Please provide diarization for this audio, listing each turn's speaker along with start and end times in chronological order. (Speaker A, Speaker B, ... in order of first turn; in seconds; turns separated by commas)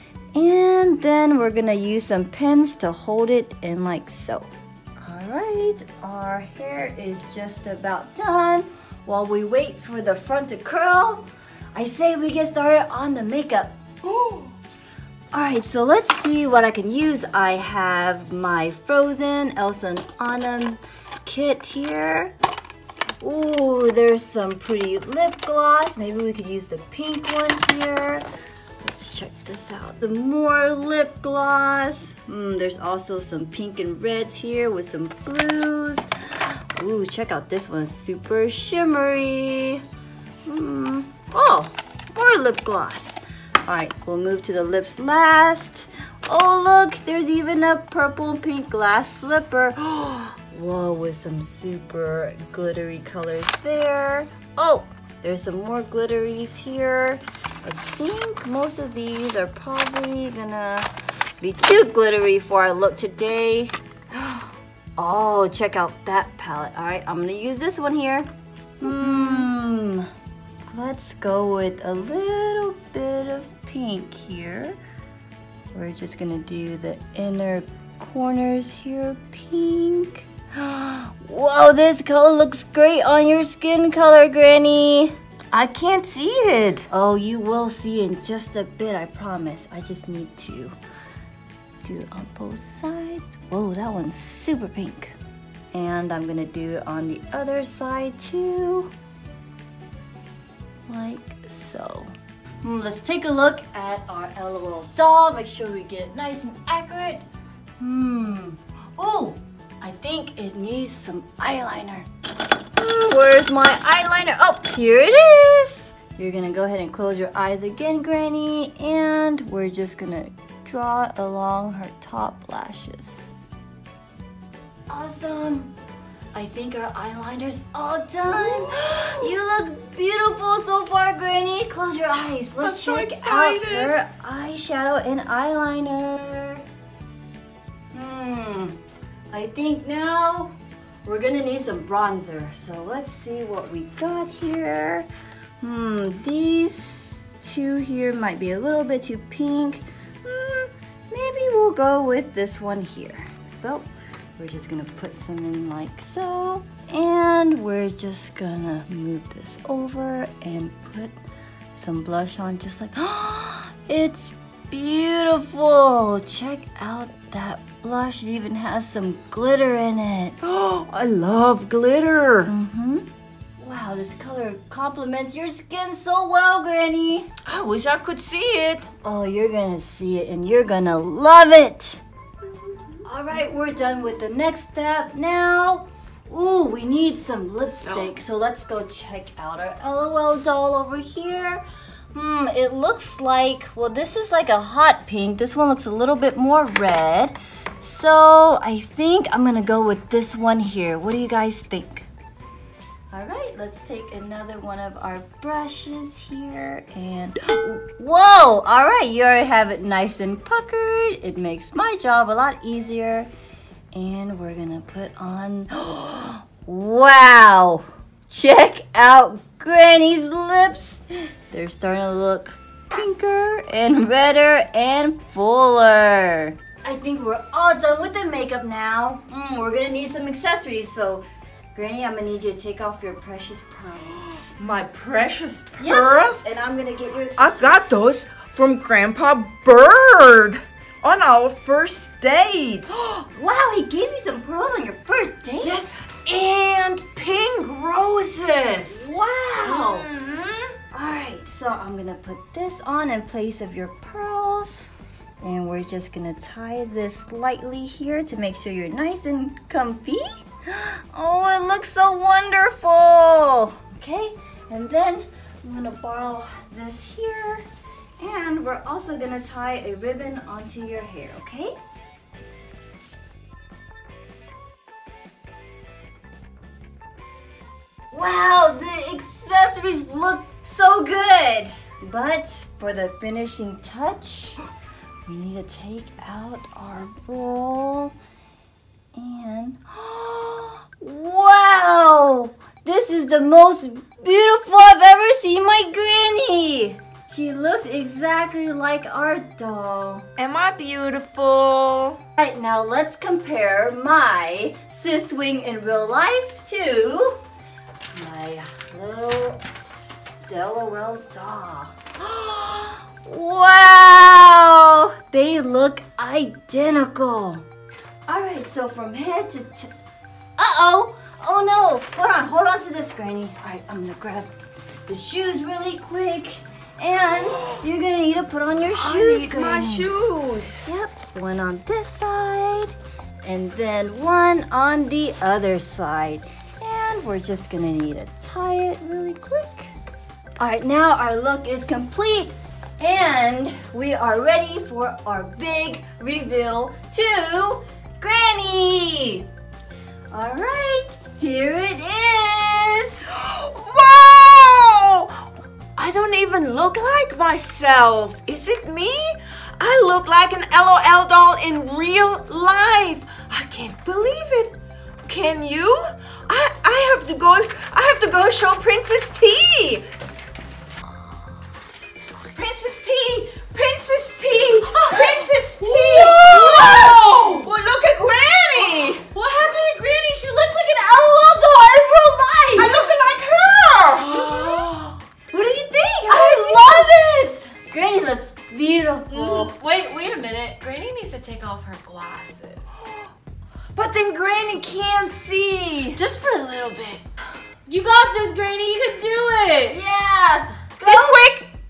Speaker A: 0.3-13.8, Speaker B: 14.0-14.5, Speaker A: 15.3-22.3, Speaker A: 23.2-28.2, Speaker A: 28.8-39.8, Speaker A: 40.5-68.3, Speaker A: 68.8-70.1, Speaker B: 69.0-69.3, Speaker A: 70.7-74.8, Speaker A: 75.7-85.1, Speaker B: 85.5-86.9, Speaker A: 86.9-90.8, Speaker A: 91.8-95.1, Speaker A: 95.7-98.9, Speaker A: 100.9-107.2, Speaker A: 107.8-112.1, Speaker A: 112.8-123.3, Speaker A: 124.9-125.7, Speaker A: 126.3-136.6, Speaker B: 128.3-129.3, Speaker B: 132.6-134.0, Speaker A: 137.9-138.8, Speaker A: 139.3-145.1, Speaker A: 145.6-161.1, Speaker A: 161.7-170.4, Speaker B: 170.4-172.5, Speaker A: 172.4-173.1, Speaker A: 173.6-177.3, Speaker B: 177.4-178.9, Speaker A: 179.0-182.0, Speaker A: 183.0-202.1, Speaker B: 187.8-188.1, Speaker A: 203.1-213.3, Speaker A: 213.9-234.5, Speaker B: 234.6-236.4, Speaker A: 235.8-238.0, Speaker B: 237.4-242.9, Speaker A: 243.2-245.9, Speaker B: 245.6-249.1, Speaker A: 248.9-250.1, Speaker B: 249.6-250.7, Speaker A: 250.9-254.9, Speaker A: 255.4-267.7, Speaker A: 268.2-271.7, Speaker A: 278.1-284.6, Speaker A: 285.2-288.1, Speaker A: 289.1-300.3, Speaker B: 300.4-302.2, Speaker A: 302.4-307.4, Speaker A: 308.1-317.6, Speaker A: 318.3-319.9, Speaker A: 320.6-324.5, Speaker A: 325.1-330.1, Speaker B: 327.5-327.8, Speaker B: 328.9-330.8, Speaker A: 330.8-339.9, Speaker A: 340.6-349.5, Speaker A: 350.3-353.2, Speaker B: 353.3-370.1, Speaker B: 372.5-379.2, Speaker C: 374.5-377.7, Speaker C: 378.8-383.1, Speaker B: 382.8-384.5, Speaker C: 384.2-387.7, Speaker A: 386.3-389.7, Speaker B: 386.3-386.8, Speaker C: 389.3-392.9, Speaker B: 393.9-396.2, Speaker C: 396.1-397.2, Speaker C: 397.9-400.0, Speaker A: 399.9-401.5, Speaker B: 401.0-401.7